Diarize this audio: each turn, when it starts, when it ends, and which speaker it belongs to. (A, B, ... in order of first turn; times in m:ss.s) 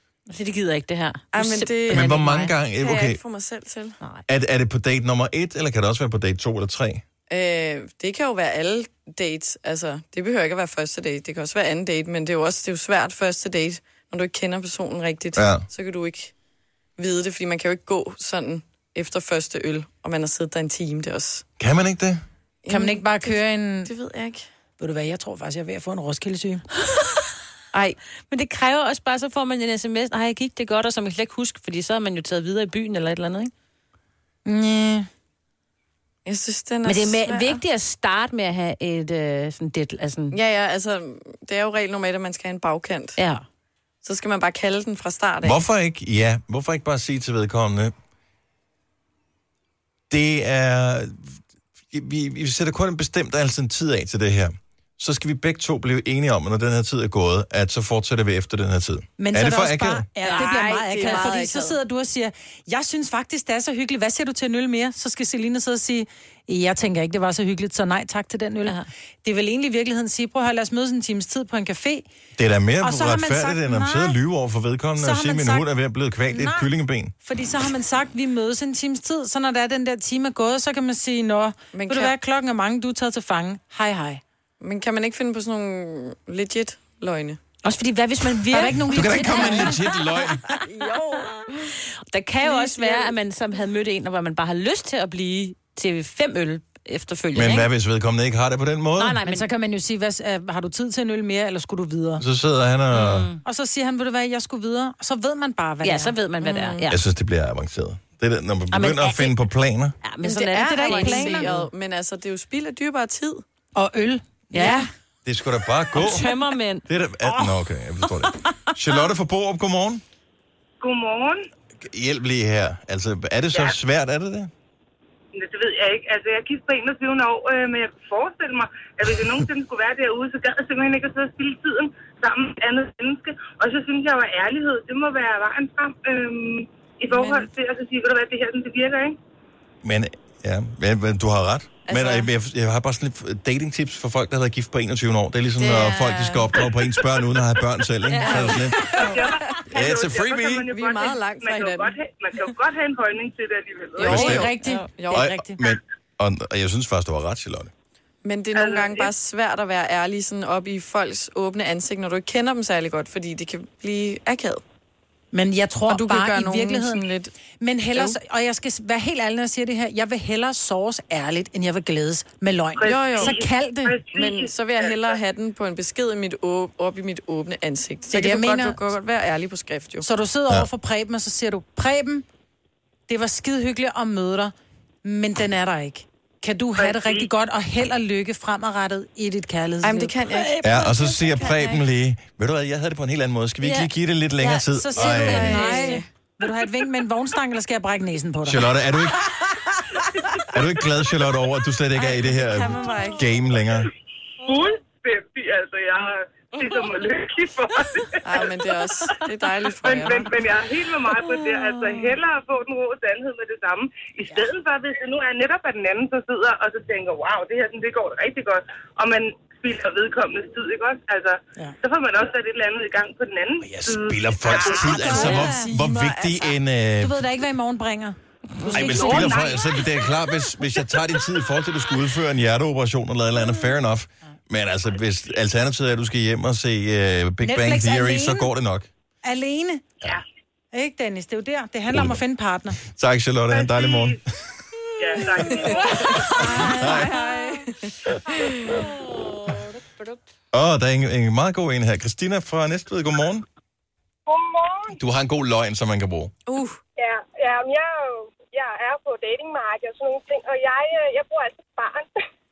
0:00.3-0:02.5 A
0:01.3-0:04.0 B
0:01.9-0:03.2 C
0:04.3-0:07.0 C
0:07.3-0:16.3 B
0:15.4-0:15.6 C
0:17.0-0:21.4 B
0:21.6-0:22.2 C
0:22.6-0:24.5 B
0:22.7-0:23.9 D
0:24.8-0:26.6 D
0:27.7-0:28.0 B
0:28.3-0:33.5 A
0:34.4-0:35.1 D
0:36.2-0:37.6 B
0:36.8-0:40.4 A
0:40.3-0:43.2 B
0:43.2-0:43.4 A
0:44.0-0:45.6 B
0:45.4-0:47.9 C
0:50.1-0:51.4 C
0:51.9-1:00.1 C
0:59.2-1:12.0 D
1:00.2-1:01.8 B
1:00.2-1:01.3 A
1:12.4-1:17.1 C
1:12.8-1:14.2 D
1:15.0-1:15.7 D
1:16.3-1:16.7 D
1:17.2-1:24.2 D
1:21.7-1:22.1 B
1:24.6-1:27.4 B
1:27.6-1:29.9 A
1:28.5-1:29.8 D
1:28.9-1:30.6 C
1:30.5-1:31.7 B
1:31.7-1:37.7 A
1:32.6-1:33.0 D
1:37.3-1:39.2 C
1:39.0-1:39.5 A
1:39.2-1:42.2 D
1:42.2-1:43.3 C
1:42.9-1:43.4 A
1:43.4-1:46.1 D
1:45.8-1:47.0 A
1:46.4-1:46.8 B
1:46.9-1:49.9 C
1:48.7-1:49.4 A
1:50.0-1:51.7 A
1:50.2-1:51.5 D
1:50.4-1:53.4 B
1:53.7-1:54.8 D
1:54.5-1:54.9 A
1:54.5-1:54.8 B
1:55.2-1:56.3 C
1:55.9-1:56.8 A
1:56.8-2:00.0 C
2:00.8-2:01.5 E
2:01.8-2:04.5 C
2:05.3-2:19.2 E
2:17.1-2:17.5 B
2:19.8-2:29.0 C
2:21.9-2:22.3 B
2:25.6-2:26.7 B
2:28.1-2:28.7 A
2:28.2-2:29.7 B
2:29.0-2:34.4 E
2:29.7-2:30.7 C
2:30.7-2:32.0 B
2:34.0-2:35.3 B
2:34.0-2:34.6 C
2:34.0-2:35.6 D
2:35.1-2:37.7 C
2:38.2-2:44.6 B
2:38.5-2:39.1 E
2:45.3-2:47.1 D
2:45.9-2:47.3 B
2:47.6-2:54.0 D
2:52.8-2:55.2 E
2:52.8-2:53.4 B
2:54.1-3:00.1 B
2:58.1-2:58.8 D
3:00.0-3:02.2 D
3:03.1-3:04.5 D
3:05.0-3:11.0 D
3:06.8-3:07.3 E
3:09.8-3:11.8 B
3:10.6-3:15.7 C
3:13.6-3:16.0 A
3:14.7-3:18.7 D
3:15.0-3:16.1 B
3:18.4-3:19.3 C
3:20.5-3:23.9 C
3:22.0-3:23.3 B
3:24.4-3:28.5 E
3:28.2-3:30.3 B
3:29.8-3:45.3 E
3:43.6-3:47.2 C
3:44.4-3:46.3 D
3:45.0-3:46.4 B
3:47.0-3:49.6 D
3:48.7-3:58.9 C
3:57.4-3:58.5 D
3:59.2-3:59.8 D
4:00.7-4:02.8 D
4:01.9-4:02.2 C
4:02.8-4:04.3 C
4:03.5-4:04.2 E
4:05.0-4:06.3 E
4:05.4-4:08.9 B
4:06.2-4:07.6 D
4:06.5-4:07.1 C
4:09.1-4:09.6 A
4:10.5-4:13.4 C
4:14.3-4:14.9 E
4:14.9-4:16.3 C
4:16.5-4:16.8 B
4:17.0-4:17.8 E
4:18.6-4:22.1 F
4:18.6-4:19.1 E